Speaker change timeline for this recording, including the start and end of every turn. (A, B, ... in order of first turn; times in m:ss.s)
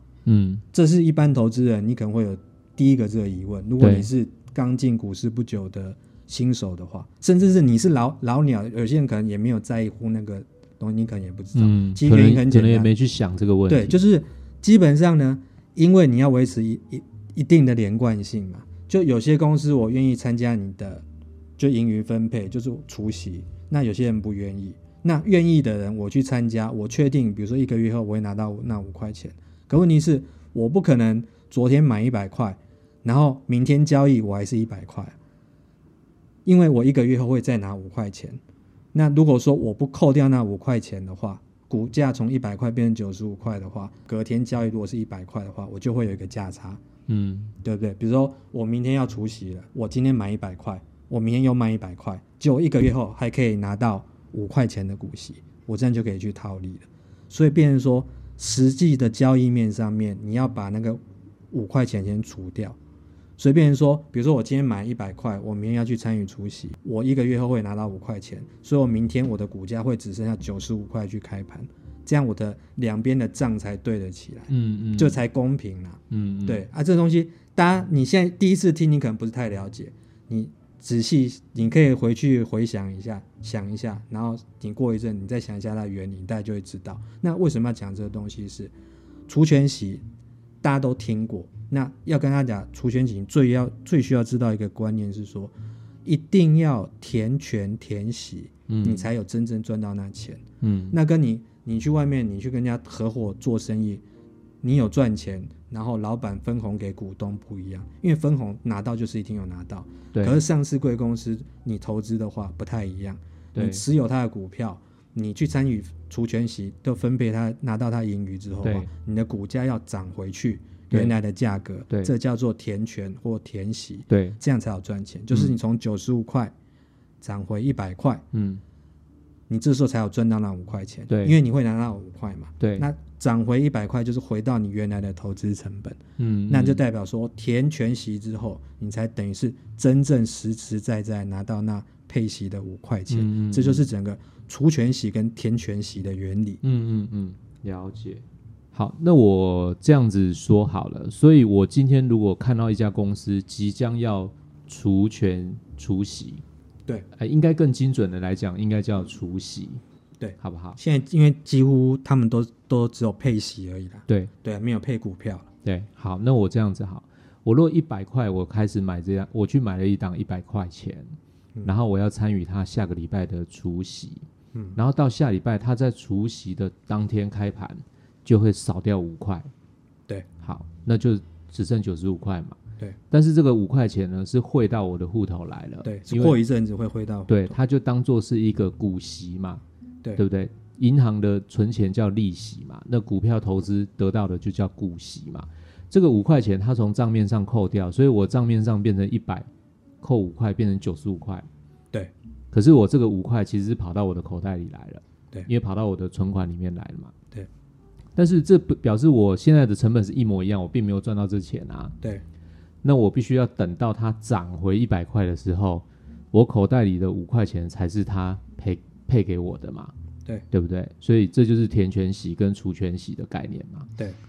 0:00.3-0:00.6 A
0:00.7-0:12.9 B
0:03.8-0:04.1 A
0:11.6-0:14.0 A
0:13.7-0:21.0 B
0:21.6-0:35.2 B
0:36.4-0:38.4 B
0:38.9-0:46.8 B
0:47.1-0:47.5 A
0:47.6-1:01.0 B
1:01.5-1:02.8 B
1:03.4-1:28.7 B
1:14.5-1:15.2 A
1:16.1-1:16.6 A
1:29.3-1:30.0 B
1:30.6-1:35.5 B
1:36.0-1:44.0 B
1:38.7-1:39.1 A
1:40.6-1:41.0 A
1:44.6-2:06.5 B
1:50.1-1:50.4 A
1:53.5-1:53.8 A
1:58.6-1:58.9 A
2:04.1-2:04.4 A
2:07.2-2:08.2 B
2:08.3-2:08.6 A
2:09.5-2:26.6 B
2:11.1-2:11.4 A
2:12.6-2:12.9 A
2:16.2-2:16.8 A
2:23.1-2:23.9 A
2:26.6-2:36.4 A
2:37.2-2:39.8 A
2:40.2-2:45.5 B
2:40.4-2:40.8 A
2:45.6-2:54.2 A
2:54.5-2:54.8 B
2:54.8-2:59.5 A
3:00.4-3:02.6 A
3:03.1-3:06.4 A
3:05.8-3:07.6 B
3:07.3-3:09.6 A
3:10.2-3:19.5 A
3:20.0-3:21.5 A
3:22.5-3:27.1 A
3:28.2-3:32.0 A
3:32.8-3:39.9 A
3:40.5-3:43.9 A